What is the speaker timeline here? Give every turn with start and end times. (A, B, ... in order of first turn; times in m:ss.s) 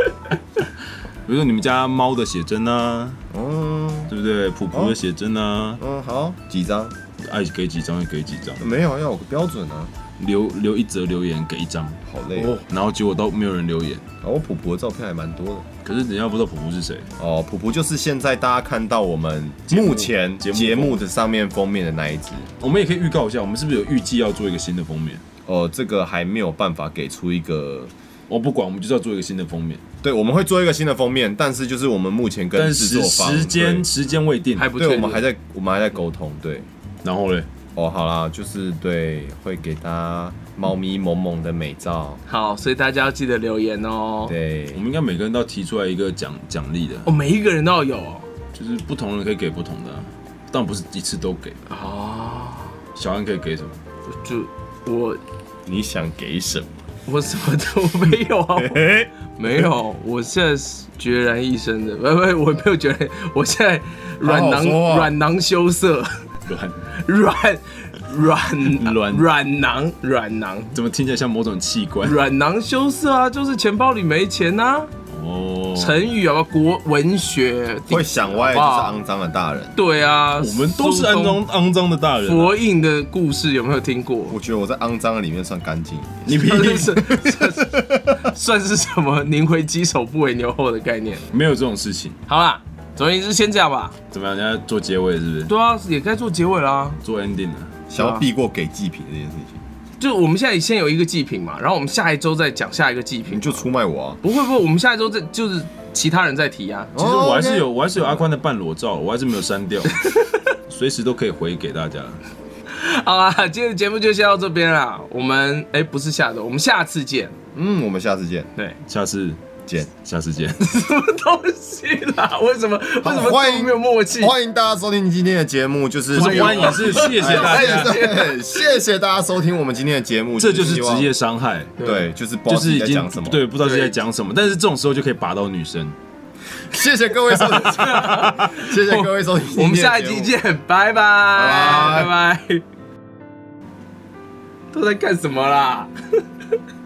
0:01.3-0:03.2 A
0:03.3-0:04.1 B
0:04.1-0:05.8 A
0:05.8-0:07.0 B
0:07.2-0:08.7 A
0:08.6-0:09.9 B
0:10.2-0:14.0 A
0:12.1-0:12.6 B
0:14.2-0:15.7 B
0:15.8-0:17.1 A
0:17.2-0:22.5 B
0:19.7-0:21.0 A
0:22.6-0:25.2 A
0:25.5-0:27.9 B
0:28.3-0:29.8 A
0:30.0-0:33.9 B
0:32.6-0:34.7 A
0:34.6-0:35.3 C
0:34.8-0:36.7 B
0:37.0-0:37.5 A
0:37.8-0:42.2 B
0:42.3-0:44.4 C
0:44.3-0:44.8 B
0:44.7-0:47.1 A
0:47.1-0:48.3 C
0:48.5-0:51.6 A
0:51.7-0:52.8 C
0:53.0-0:53.8 A
0:54.1-0:55.2 C
0:55.7-0:56.7 B
0:57.1-1:06.2 C
0:58.6-0:59.1 B
1:04.2-1:05.1 B
1:06.5-1:06.8 A
1:06.9-1:10.8 C
1:08.7-1:09.3 A
1:10.7-1:12.2 A
1:12.0-1:14.9 C
1:15.1-1:16.0 A
1:15.8-1:19.0 C
1:17.9-1:19.8 B
1:19.8-1:21.4 C
1:20.4-1:22.6 A
1:22.2-1:24.4 C
1:24.3-1:26.4 B
1:26.3-1:27.1 A
1:26.3-1:31.3 C
1:27.1-1:28.2 B
1:31.3-1:32.2 A
1:32.3-1:34.0 C
1:34.1-1:35.5 A
1:35.5-1:37.0 C
1:37.0-1:37.8 A
1:37.9-1:39.6 B
1:40.0-1:43.7 C
1:43.3-1:44.2 B
1:44.2-1:47.0 C
1:47.0-1:48.2 B
1:47.0-1:50.0 A
1:50.0-1:50.3 C
1:50.7-1:52.2 A
1:52.7-1:57.4 C
1:57.5-1:58.5 B
1:58.9-1:59.4 A
1:59.9-2:00.6 A
2:00.6-2:04.4 C
2:03.0-2:11.1 B
2:06.1-2:08.0 A
2:06.1-2:08.4 C
2:10.4-2:11.8 A
2:11.8-2:12.1 C
2:11.8-2:13.4 B
2:12.5-2:16.0 A
2:13.6-2:13.9 C
2:16.6-2:20.3 B
2:17.3-2:22.6 C
2:21.3-2:22.1 B
2:24.7-2:25.9 C